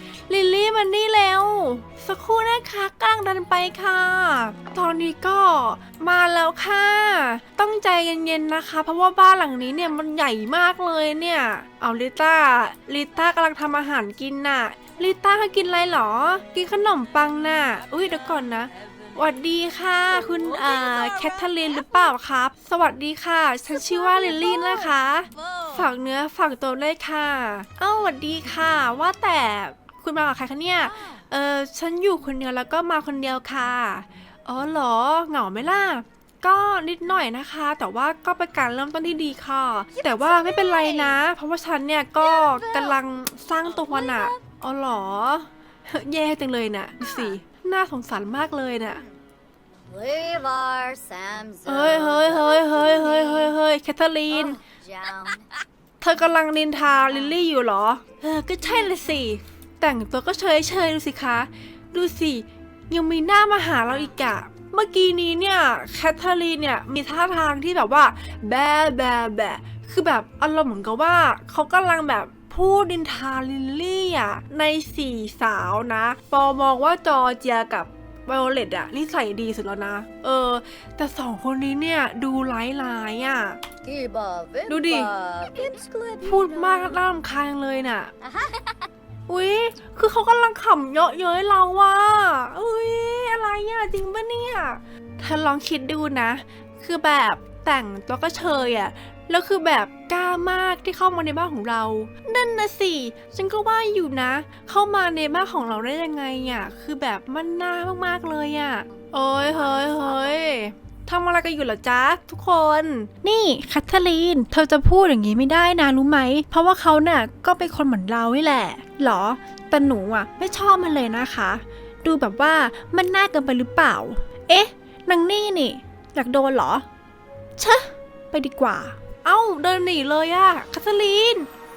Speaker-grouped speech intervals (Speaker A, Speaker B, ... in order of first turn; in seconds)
Speaker A: 0.3-49.0, 51.6-54.6, 56.0-83.6, 84.7-85.1, 86.2-88.1, 89.3-126.8, 127.6-131.5
Speaker B: 20.6-21.4, 23.9-24.9, 25.4-25.7, 40.0-41.2, 42.2-43.0, 43.8-44.4, 49.9-53.5, 54.3-55.4, 83.8-87.0, 88.2-88.8, 109.0-110.2